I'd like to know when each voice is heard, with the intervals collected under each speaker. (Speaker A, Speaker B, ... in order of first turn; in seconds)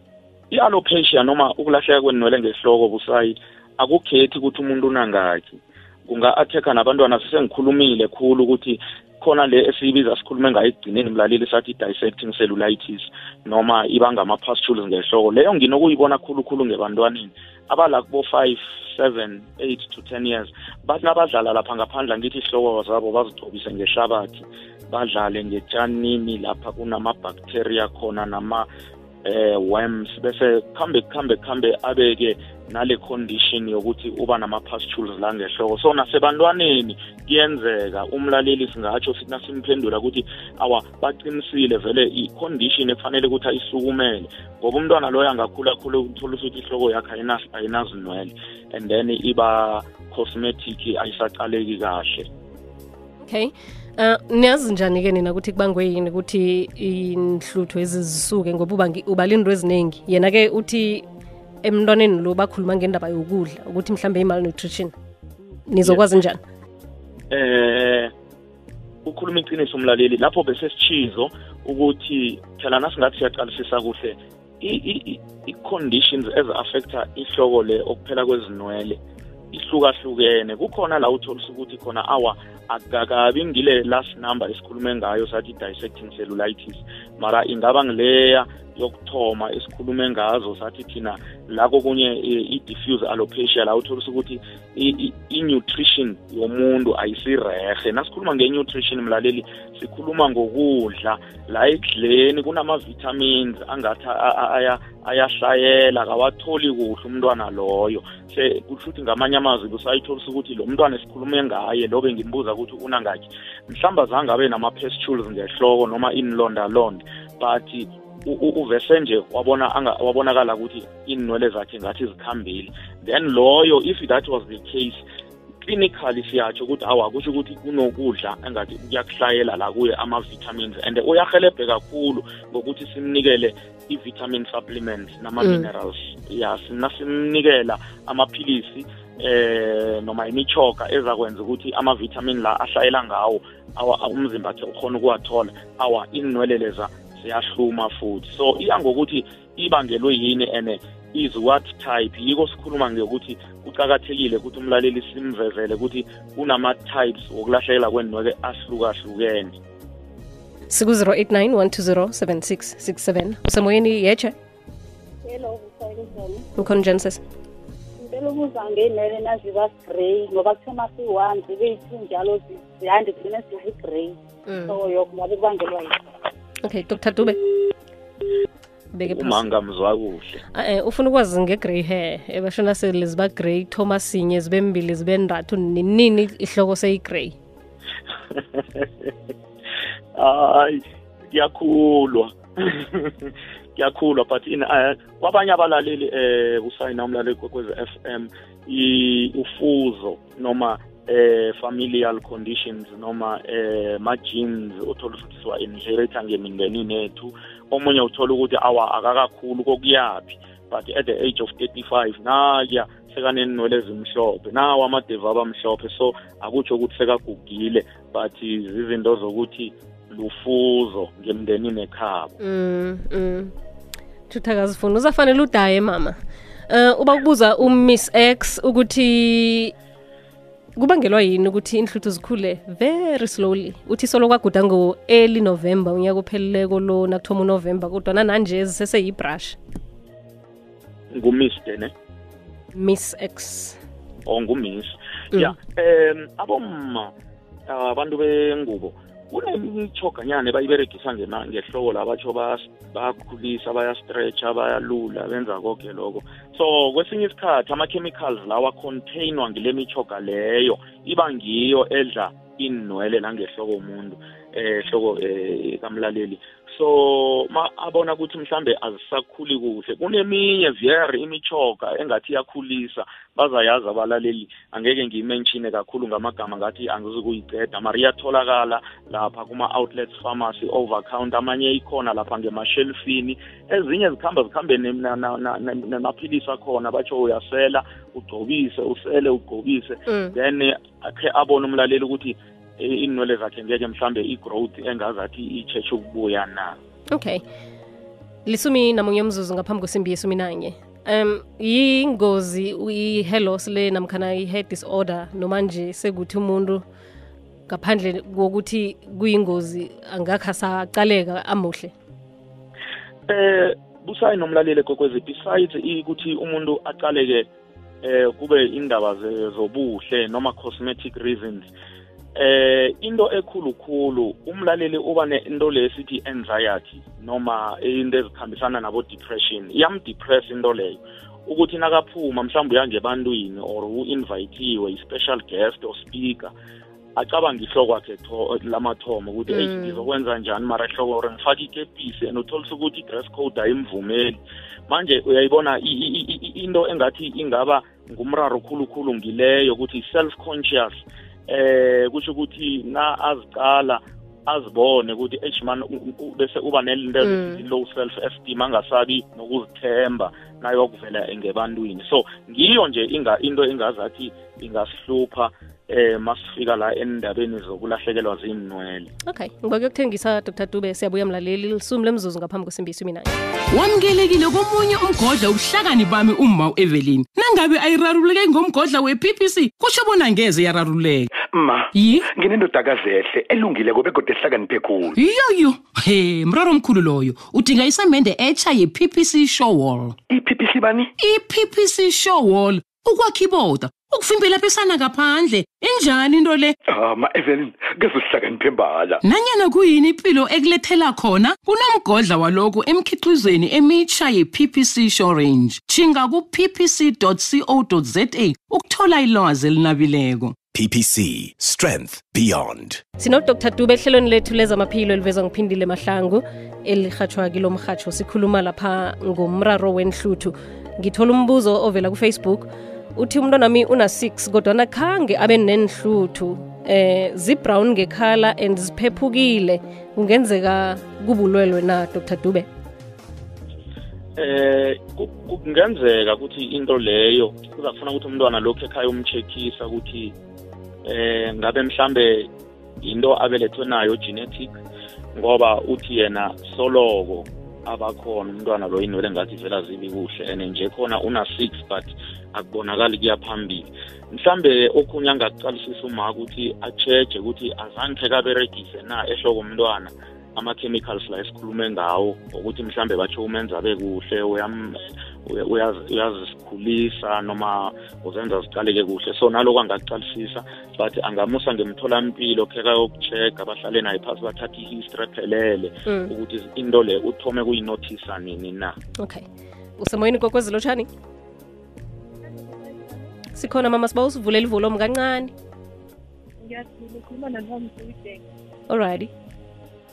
Speaker A: 0.5-28.7, 29.2-52.3, 67.3-68.1, 69.0-79.0, 79.5-125.0, 125.6-159.6, 179.1-180.4, 188.3-189.1, 190.2-222.3, 241.1-241.9, 244.2-247.1, 247.7-296.8, 313.3-317.5, 318.0-321.7, 322.3-336.5, 337.1-369.1, 434.4-440.3, 441.0-442.5, 443.0-444.8, 445.4-478.9
Speaker B: 53.2-61.0, 61.6-64.9, 65.7-66.4, 135.4-135.7, 160.7-164.3, 166.6-167.2, 174.5-174.8, 176.6-177.4, 178.9-179.4, 180.5-187.3, 222.4-223.5, 224.3-226.2, 226.7-229.7, 230.8-239.6, 242.7-243.8, 290.1-290.3, 297.1-297.4, 298.4-306.8, 307.7-311.9, 339.5-340.0, 357.2-357.6, 369.3-373.3, 413.2-432.7, 476.1-476.3, 479.2-479.4, 480.0-481.1, 483.5-485.5, 488.9-489.3
Speaker C: 165.2-166.4, 168.0-175.9
Speaker D: 373.7-381.3, 381.9-382.2, 385.1-390.2, 391.2-396.7, 399.2-410.6
Speaker E: 381.5-385.1, 390.3-391.1, 396.9-399.2
Speaker F: 410.7-413.0
Speaker G: 482.4-483.3, 486.6-488.4